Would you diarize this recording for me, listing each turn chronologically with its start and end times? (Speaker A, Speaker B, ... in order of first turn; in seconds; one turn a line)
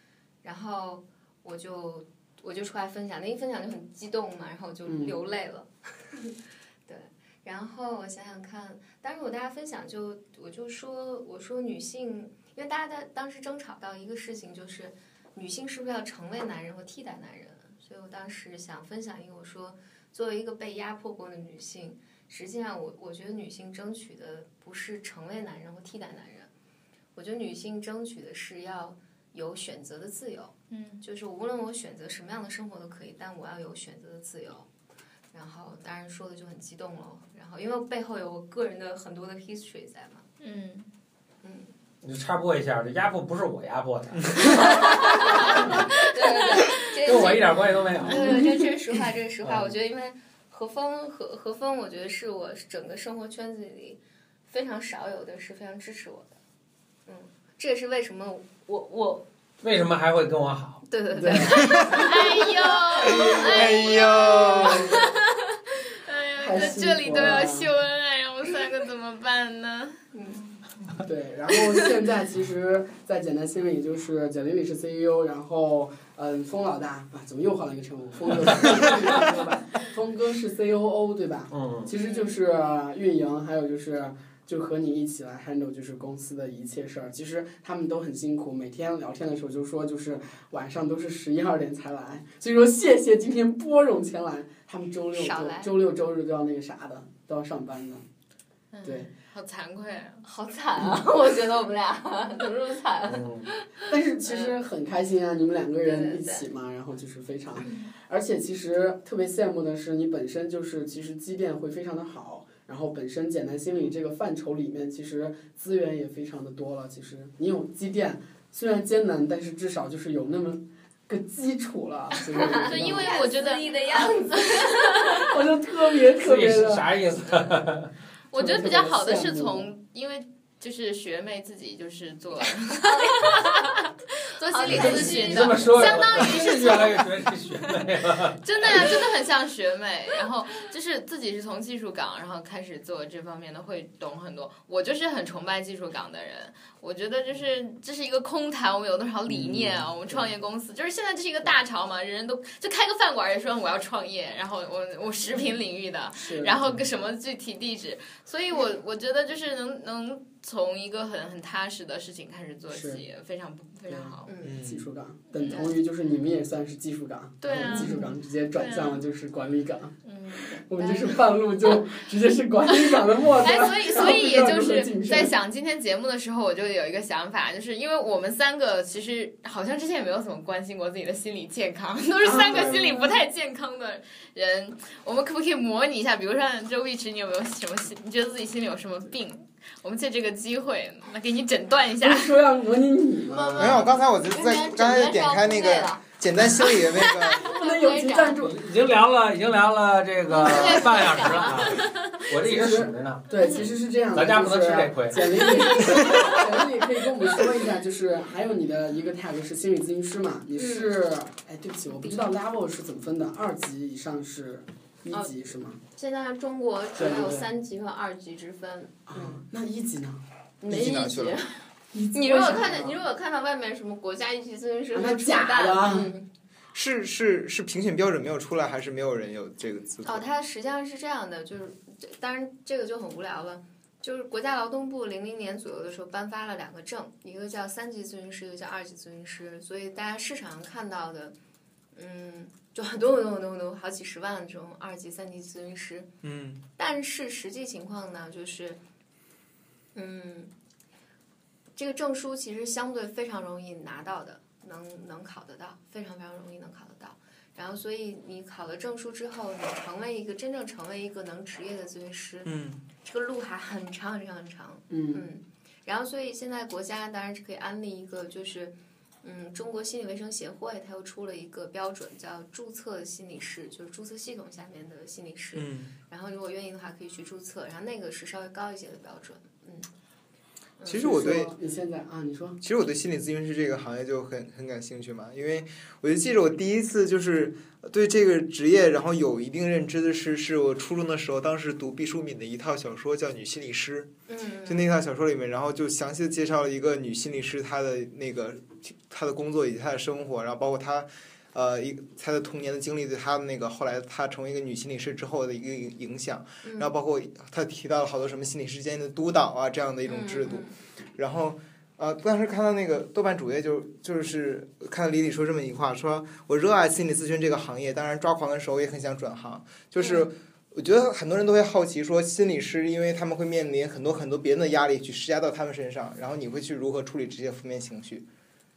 Speaker A: 0.4-26.5
Speaker B: 4.8-5.2
Speaker A: 27.1-34.7
Speaker C: 30.7-31.0
Speaker A: 35.3-40.2
Speaker C: 40.4-40.9
Speaker A: 41.4-41.7
Speaker D: 42.0-45.9
Speaker A: 44.4-56.4
Speaker D: 47.0-48.4
Speaker D: 49.4-49.7
Speaker A: 57.0-59.3
Speaker D: 59.6-60.8
Speaker A: 60.9-62.4
Speaker B: 61.1-61.9
Speaker E: 61.6-62.1
Speaker C: 61.7-70.0
Speaker A: 62.9-64.9
Speaker E: 63.1-65.0
Speaker B: 66.4-67.7
Speaker A: 70.1-70.6
Speaker B: 71.0-98.0
Speaker D: 81.5-81.9
Speaker A: 82.0-82.3
Speaker A: 95.1-95.7
Speaker C: 98.7-100.2
Speaker B: 98.8-99.1
Speaker A: 100.2-103.9
Speaker D: 103.1-103.5
Speaker B: 103.9-123.2
Speaker A: 105.8-106.5
Speaker A: 122.2-125.3
Speaker C: 122.7-125.3
Speaker B: 125.2-126.9
Speaker D: 126.2-127.9
Speaker C: 128.3-137.8
Speaker B: 128.3-129.7
Speaker A: 132.7-133.7
Speaker A: 134.4-136.9
Speaker D: 134.7-138.4
Speaker C: 138.4-164.3
Speaker B: 149.3-150.3
Speaker B: 156.2-156.6
Speaker B: 162.7-163.0
Speaker B: 163.9-169.9
Speaker A: 164.2-164.6
Speaker E: 164.4-164.8
Speaker C: 165.3-165.7
Speaker C: 167.4-169.0
Speaker A: 167.5-168.1
Speaker C: 170.0-170.6
Speaker B: 170.6-175.3
Speaker A: 170.8-171.1
Speaker C: 172.7-192.3
Speaker B: 182.2-183.2
Speaker B: 192.0-193.8
Speaker A: 193.3-198.4
Speaker E: 193.6-197.5
Speaker B: 197.5-198.7
Speaker D: 198.4-205.6
Speaker A: 200.3-201.6
Speaker C: 200.4-202.2
Speaker B: 202.4-215.8
Speaker A: 210.6-210.9
Speaker A: 212.0-212.3
Speaker A: 215.9-219.4
Speaker B: 216.9-217.5
Speaker B: 219.1-220.2
Speaker A: 220.6-226.3
Speaker E: 220.7-221.4
Speaker B: 221.9-222.9
Speaker B: 224.9-226.1
Speaker E: 226.7-230.2
Speaker A: 230.0-241.3
Speaker A: 241.9-246.1
Speaker E: 246.2-246.6
Speaker A: 246.8-248.8
Speaker A: 249.9-250.5
Speaker A: 251.8-279.9
Speaker E: 262.4-262.8
Speaker B: 264.9-265.2
Speaker E: 275.5-275.9
Speaker A: 280.8-281.1
Speaker E: 280.9-281.5
Speaker B: 281.0-282.6
Speaker E: 282.6-294.1
Speaker A: 294.3-295.0
Speaker E: 294.6-328.3
Speaker A: 306.6-306.9
Speaker A: 310.1-310.8
Speaker A: 320.0-320.3